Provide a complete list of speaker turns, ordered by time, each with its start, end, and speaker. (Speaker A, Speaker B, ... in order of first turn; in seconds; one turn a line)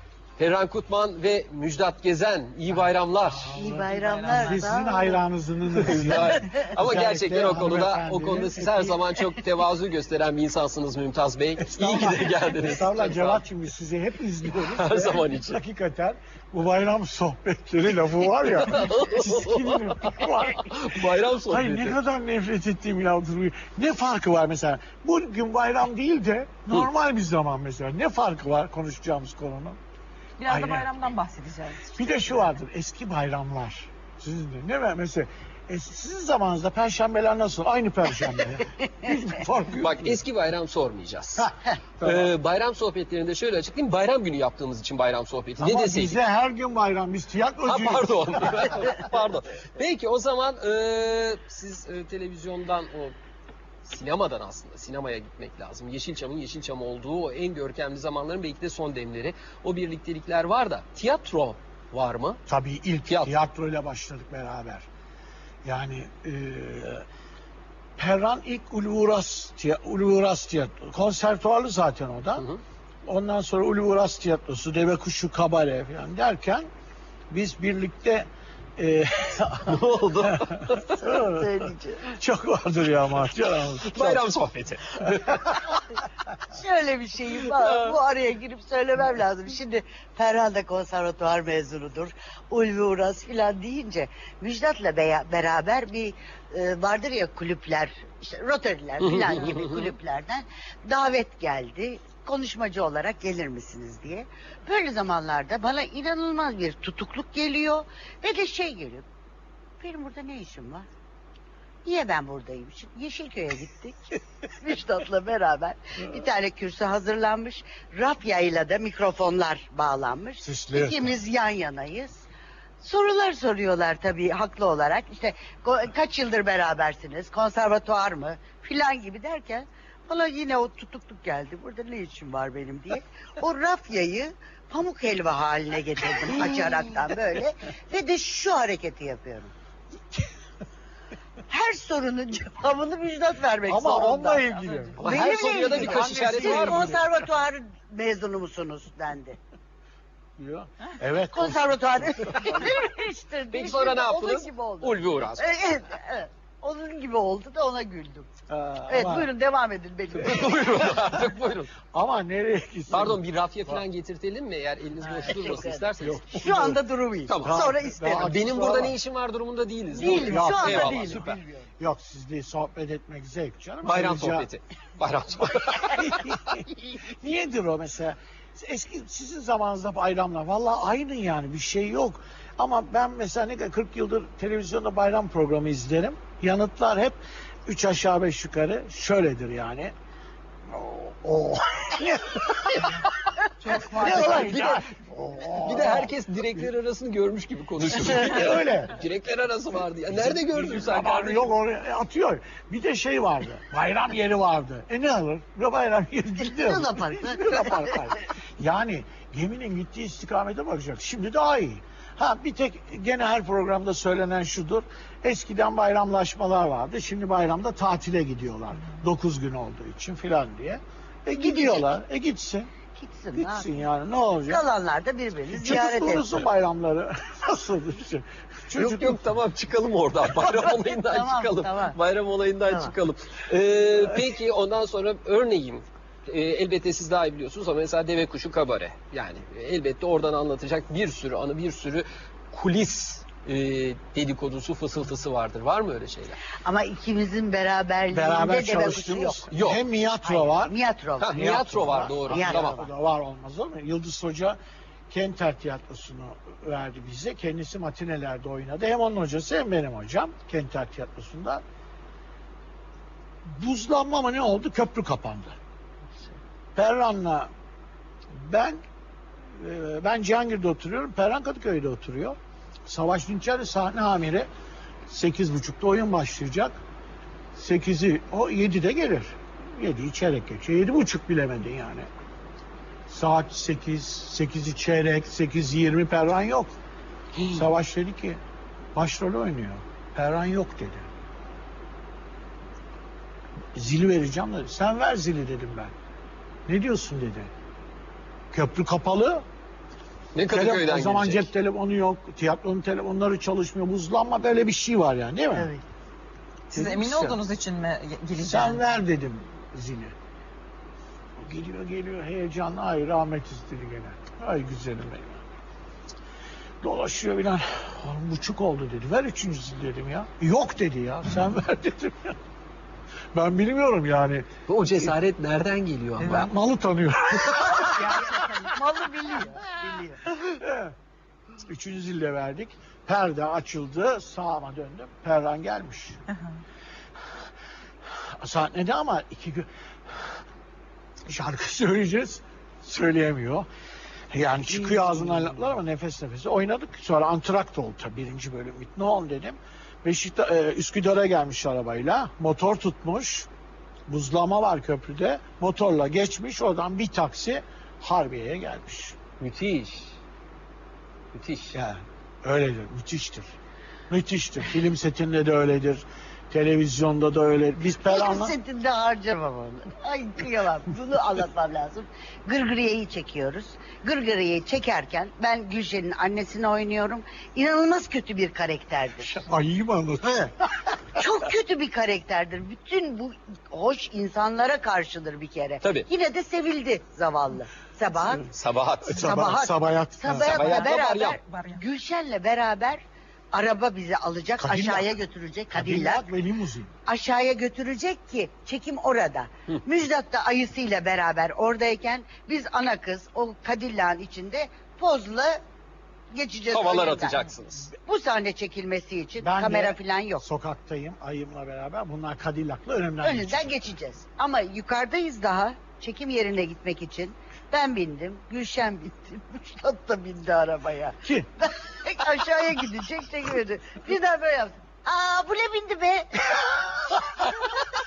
Speaker A: 0.4-3.5
Speaker B: 3.2-9.2
Speaker C: 3.5-5.2
Speaker D: 3.6-4.8
Speaker A: 5.8-13.4
Speaker B: 11.6-29.8
Speaker A: 14.6-15.6
Speaker A: 18.4-21.9
Speaker D: 30.4-32.0
Speaker B: 30.5-30.9
Speaker B: 31.9-40.2
Speaker A: 39.8-46.2
Speaker B: 42.0-42.3
Speaker B: 45.6-49.1
Speaker A: 47.6-53.1
Speaker A: 53.8-62.4
Speaker B: 62.5-64.9
Speaker A: 63.1-63.3
Speaker B: 65.6-67.0
Speaker B: 68.0-72.5
Speaker B: 73.0-76.7
Speaker B: 77.3-84.2
Speaker A: 79.7-81.0
Speaker C: 81.0-82.1
Speaker A: 83.8-85.6
Speaker C: 86.5-109.0
Speaker A: 99.0-99.9
Speaker C: 109.8-110.9
Speaker C: 111.8-122.2
Speaker B: 120.4-121.1
Speaker C: 122.8-139.5
Speaker C: 141.5-149.4
Speaker B: 143.7-147.2
Speaker D: 144.7-144.9
Speaker A: 145.0-147.0
Speaker B: 150.4-152.7
Speaker C: 151.3-158.3
Speaker A: 153.5-155.5
Speaker B: 158.5-159.3
Speaker C: 158.9-161.0
Speaker A: 160.1-161.7
Speaker B: 160.9-161.2
Speaker B: 161.9-163.8
Speaker A: 162.9-166.5
Speaker C: 165.1-168.8
Speaker B: 166.0-166.8
Speaker A: 167.3-167.7
Speaker B: 167.3-169.0
Speaker A: 168.2-171.4
Speaker C: 169.9-171.5
Speaker B: 170.0-174.5
Speaker A: 173.8-176.2
Speaker B: 175.4-189.9
Speaker B: 190.7-193.1
Speaker C: 193.6-194.8
Speaker B: 193.7-196.6
Speaker D: 193.7-194.5
Speaker A: 194.2-194.8
Speaker A: 195.6-201.5
Speaker B: 197.9-199.0
Speaker B: 200.1-222.7
Speaker C: 206.5-208.2
Speaker C: 221.4-221.9
Speaker C: 222.9-223.7
Speaker B: 223.3-224.6
Speaker C: 224.5-226.3
Speaker B: 225.5-229.2
Speaker A: 228.8-246.4
Speaker C: 230.9-232.0
Speaker C: 246.5-249.5
Speaker B: 248.1-250.8
Speaker A: 249.5-249.8
Speaker C: 250.2-252.9
Speaker A: 251.2-252.8
Speaker B: 251.3-254.6
Speaker B: 255.1-261.6
Speaker B: 263.4-265.6
Speaker B: 266.8-267.5
Speaker B: 268.3-268.8
Speaker B: 269.5-274.5
Speaker B: 275.1-276.8
Speaker B: 277.5-282.1
Speaker B: 283.1-286.7
Speaker B: 287.4-288.4
Speaker B: 288.9-291.1
Speaker B: 293.7-295.9
Speaker B: 296.7-297.5
Speaker B: 298.5-299.4
Speaker A: 300.3-301.5
Speaker B: 300.5-305.7
Speaker C: 305.5-305.8
Speaker B: 306.7-307.3
Speaker D: 306.7-308.9
Speaker B: 308.4-310.1
Speaker B: 311.4-315.4
Speaker B: 316.8-322.4
Speaker B: 323.3-324.5
Speaker A: 324.7-326.5
Speaker D: 326.2-326.5
Speaker B: 326.2-328.5
Speaker C: 327.9-330.2
Speaker B: 330.3-330.9
Speaker B: 331.6-336.2
Speaker B: 338.2-340.3
Speaker B: 341.2-343.7
Speaker B: 344.3-353.5
Speaker B: 354.1-359.2
Speaker A: 359.4-360.2
Speaker A: 361.3-361.8
Speaker B: 361.7-363.5
Speaker B: 364.1-368.5
Speaker C: 368.1-379.3
Speaker B: 379.2-380.5
Speaker C: 381.1-388.5
Speaker A: 385.8-386.1
Speaker A: 388.5-389.3
Speaker B: 389.0-390.6
Speaker C: 389.1-396.2
Speaker A: 390.3-391.4
Speaker D: 390.6-391.8
Speaker B: 394.6-395.1
Speaker B: 395.7-396.9
Speaker C: 397.1-405.6
Speaker C: 406.3-407.4
Speaker A: 406.7-407.9
Speaker C: 408.0-410.4
Speaker B: 409.4-413.9
Speaker C: 413.2-427.9
Speaker B: 421.2-421.5